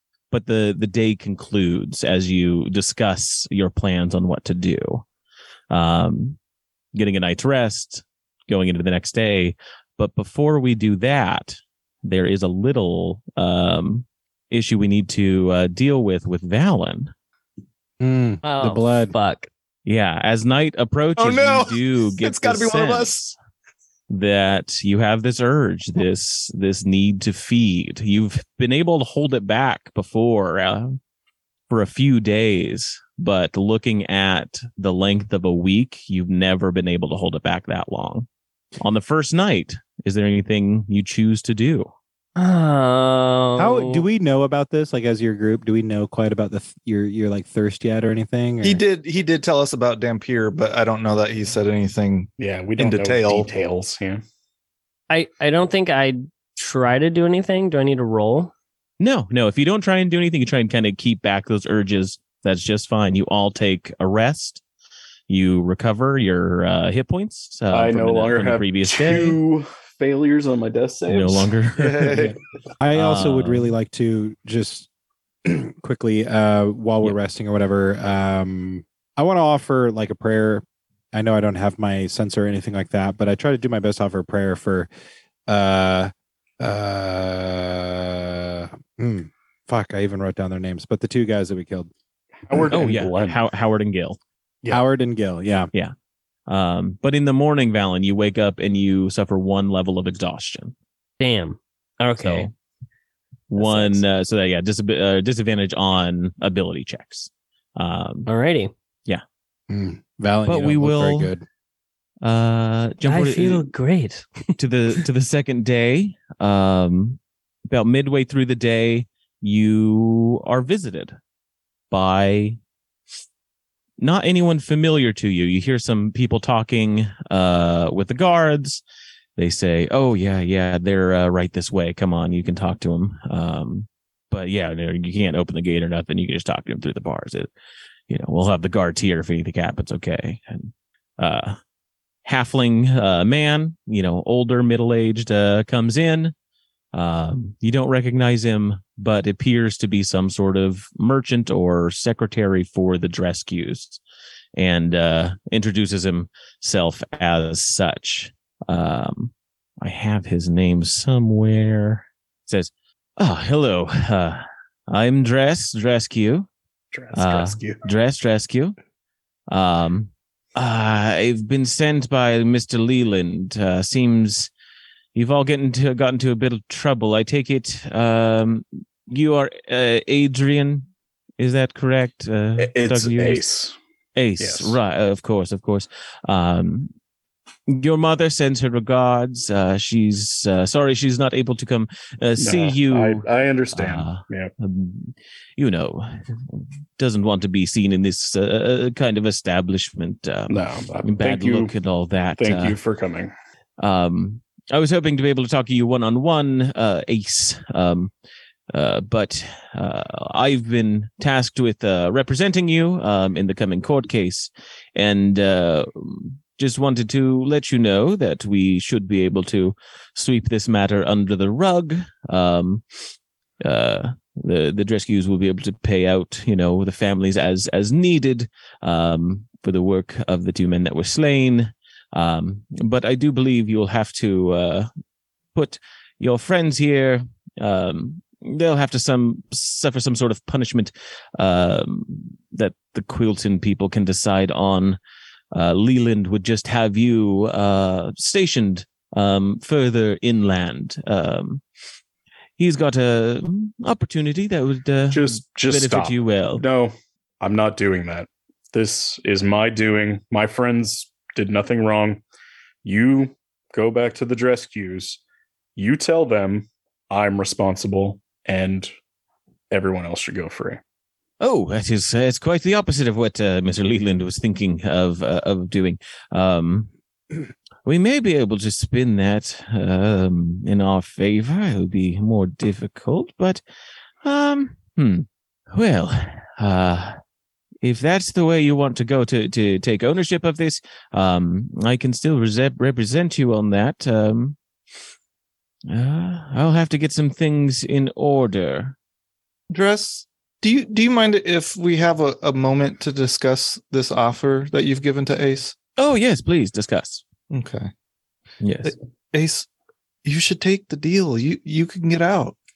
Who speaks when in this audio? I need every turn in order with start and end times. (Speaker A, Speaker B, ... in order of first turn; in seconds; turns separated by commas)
Speaker A: 0.3-5.0, Speaker A: 5.7-6.4, Speaker A: 6.9-17.1, Speaker B: 18.0-19.1, Speaker C: 18.4-19.5, Speaker A: 19.9-23.4, Speaker D: 21.2-23.2, Speaker A: 24.1-31.0, Speaker A: 31.7-41.9, Speaker C: 42.4-44.1, Speaker B: 43.6-48.8, Speaker D: 48.6-53.5, Speaker E: 52.4-54.2, Speaker C: 55.1-58.5, Speaker A: 59.0-64.6, Speaker A: 65.3-69.4, Speaker E: 67.7-71.5, Speaker A: 71.1-72.2, Speaker D: 71.8-72.4, Speaker B: 72.1-74.9, Speaker A: 72.9-73.7, Speaker B: 75.5-84.9, Speaker B: 85.5-91.9, Speaker E: 92.5-93.4, Speaker A: 92.7-94.2, Speaker B: 94.7-95.7, Speaker A: 96.5-100.8, Speaker C: 101.2-102.5, Speaker A: 102.2-102.5, Speaker A: 103.5-108.3, Speaker C: 103.5-104.0, Speaker C: 108.3-108.7, Speaker B: 109.7-111.5, Speaker A: 110.5-111.3, Speaker A: 112.2-113.7, Speaker C: 113.0-114.5, Speaker A: 114.6-121.2, Speaker A: 121.9-122.6, Speaker A: 124.0-128.8, Speaker A: 129.4-137.5, Speaker A: 138.1-141.6, Speaker A: 142.2-146.3, Speaker A: 146.9-154.0, Speaker A: 154.6-166.5, Speaker E: 166.9-167.8, Speaker A: 167.2-168.8, Speaker A: 169.5-174.5, Speaker A: 175.2-180.9, Speaker A: 181.4-183.4, Speaker E: 182.6-183.8, Speaker A: 184.2-186.9, Speaker E: 184.4-184.8, Speaker A: 187.7-202.8, Speaker E: 192.4-194.5, Speaker E: 200.5-201.7, Speaker E: 202.4-203.3, Speaker A: 203.8-208.1, Speaker A: 208.7-222.8, Speaker A: 223.6-234.9, Speaker A: 235.6-245.0, Speaker A: 245.5-251.6, Speaker A: 252.6-256.6, Speaker E: 255.1-262.2, Speaker E: 262.8-265.2, Speaker E: 265.8-268.9, Speaker E: 269.7-270.8, Speaker A: 271.4-276.9, Speaker A: 277.9-283.6, Speaker A: 284.2-287.2, Speaker A: 287.8-294.6, Speaker A: 295.9-299.0, Speaker D: 299.7-305.8, Speaker A: 306.0-307.2, Speaker D: 307.5-307.9, Speaker A: 308.6-308.9, Speaker D: 308.8-309.7, Speaker D: 310.2-312.6